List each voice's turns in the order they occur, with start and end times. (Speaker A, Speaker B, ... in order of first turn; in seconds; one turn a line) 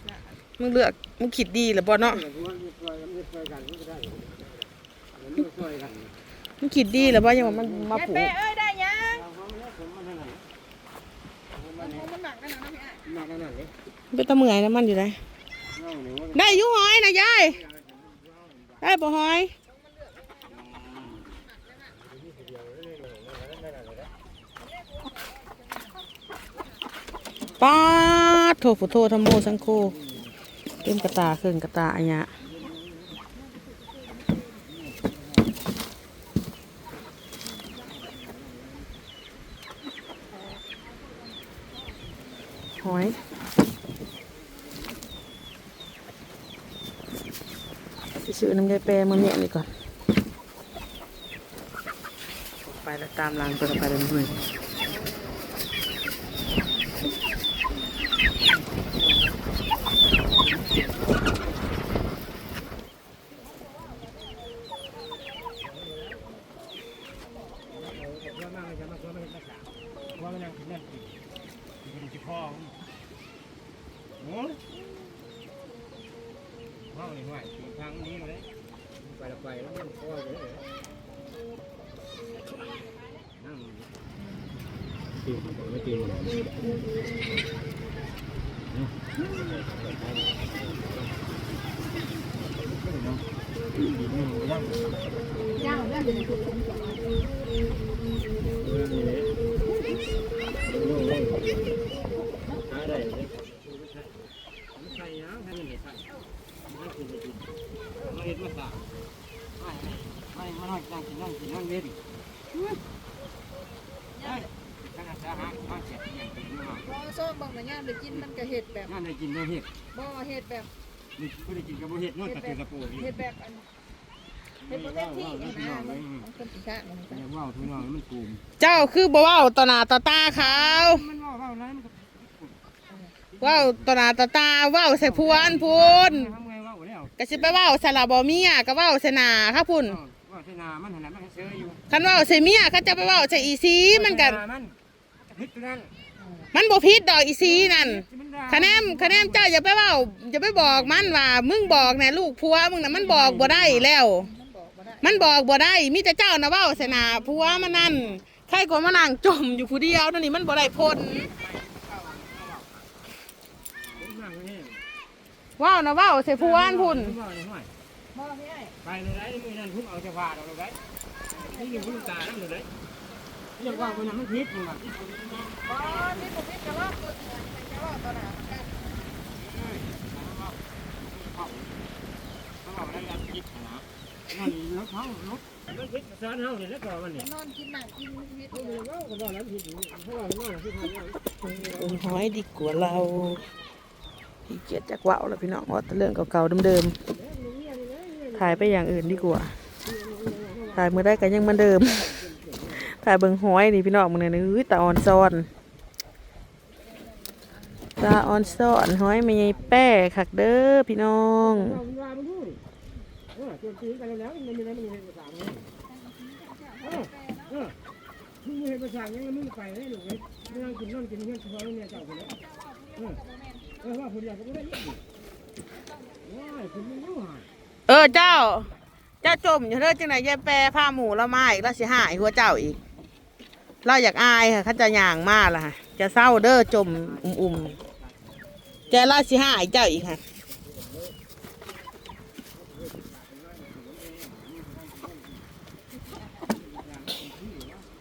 Speaker A: 0.4-2.3
Speaker B: 2.4-4.3
Speaker B: 5.3-6.0
Speaker A: 6.6-8.4
Speaker C: 8.0-9.2
Speaker B: 9.2-10.4
Speaker C: 11.8-13.1
Speaker B: 13.1-13.7
Speaker A: 14.1-15.2
Speaker B: 15.8-16.2
Speaker A: 16.3-17.6
Speaker A: 18.8-19.5
Speaker C: 19.7-20.5
Speaker A: 27.6-30.0
Speaker A: 30.8-32.3
Speaker A: 42.8-43.2
Speaker A: 48.2-49.7
Speaker A: 52.7-54.4
Speaker B: 72.0-72.5
Speaker B: 77.0-78.4
Speaker B: 79.3-80.4
Speaker C: 95.7-96.8
Speaker B: 105.0-105.7
Speaker B: 110.4-111.9
Speaker B: 115.0-116.8
Speaker C: 116.9-118.9
Speaker B: 118.9-119.7
Speaker C: 119.9-120.7
Speaker B: 121.2-123.1
Speaker C: 122.3-123.7
Speaker B: 124.7-126.0
Speaker C: 124.7-127.2
Speaker B: 127.2-128.4
Speaker A: 128.6-131.1
Speaker B: 131.2-132.2
Speaker A: 133.4-136.4
Speaker B: 136.4-137.1
Speaker A: 137.2-140.0
Speaker B: 140.1-141.8
Speaker A: 141.9-144.4
Speaker B: 144.5-144.7
Speaker B: 145.3-145.9
Speaker A: 146.5-154.3
Speaker C: 154.3-155.0
Speaker A: 155.0-161.3
Speaker B: 161.9-162.6
Speaker B: 164.0-164.8
Speaker A: 165.6-167.2
Speaker B: 167.3-167.7
Speaker C: 168.1-168.8
Speaker B: 168.8-170.8
Speaker C: 171.3-172.0
Speaker B: 171.6-172.7
Speaker B: 173.6-175.6
Speaker C: 175.6-178.7
Speaker B: 182.7-183.8
Speaker B: 184.5-185.4
Speaker B: 186.0-187.2
Speaker C: 187.2-188.8
Speaker B: 188.6-190.9
Speaker A: 191.3-193.5
Speaker A: 194.5-196.9
Speaker B: 197.8-198.1
Speaker A: 198.3-199.5
Speaker A: 200.7-202.2
Speaker A: 202.7-205.5
Speaker A: 207.9-211.8
Speaker B: 212.0-212.4
Speaker B: 213.9-215.5
Speaker C: 216.0-217.5
Speaker B: 218.6-222.2
Speaker C: 222.3-223.8
Speaker B: 224.0-225.0
Speaker B: 226.4-227.4
Speaker A: 227.9-228.7
Speaker A: 229.2-232.8
Speaker A: 233.8-237.8
Speaker A: 238.9-240.2
Speaker B: 243.6-245.0
Speaker B: 246.9-247.7